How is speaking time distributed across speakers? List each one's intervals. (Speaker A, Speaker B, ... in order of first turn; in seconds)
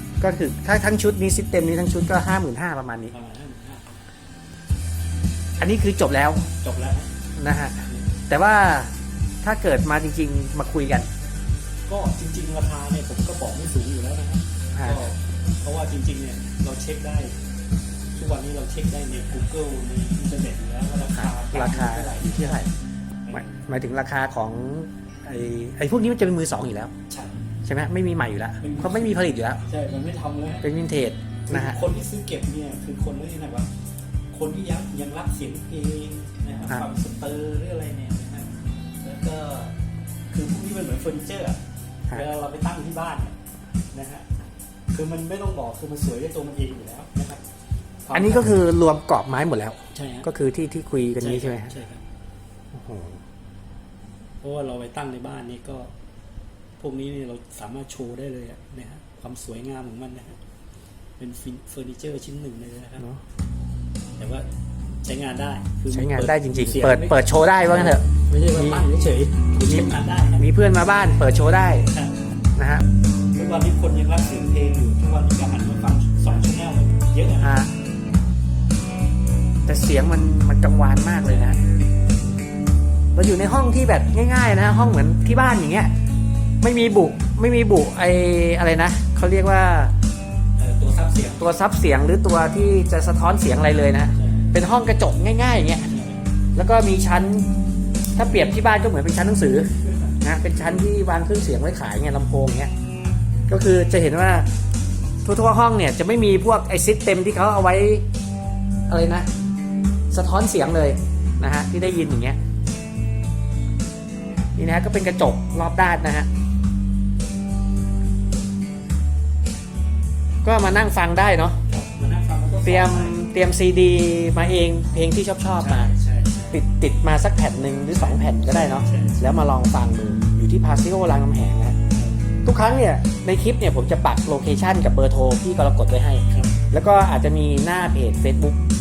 Speaker A: 0.2-3.1, 5.6-6.5, 7.4-11.1, 14.7-15.1, 21.1-22.7, 23.3-26.9, 27.6-29.6, 30.6-31.8, 48.1-51.7, 52.7-53.2, 65.9-68.8, 69.6-71.9, 72.6-72.9, 77.4-77.7, 79.7-81.6, 83.2-85.9, 86.6-89.9, 91.4-95.9, 96.6-97.5, 98.2-102.7, 103.5-104.5, 105.2-108.0, 108.9-109.3, 110.1-112.4, 114.6-116.3, 120.4-121.6, 122.6-125.9, 126.5-131.8, 132.4-138.6
Speaker B: 3.1-4.0, 6.6-7.1, 11.9-17.3, 18.1-23.6, 27.1-27.4, 28.6-30.7, 31.5-33.7, 34.3-39.8, 40.3-41.6, 42.1-43.4, 43.9-44.3, 44.9-47.4, 48.0-48.6, 49.9-50.3, 51.2-52.0, 54.4-55.9, 56.8-60.4, 61.2-63.0, 64.2-64.5, 65.0-70.5, 71.9-72.2, 73.3-77.6, 90.6-91.6, 94.2-94.5, 95.9-96.2, 121.7-123.2, 125.6-126.6, 128.0-129.2, 131.9-132.2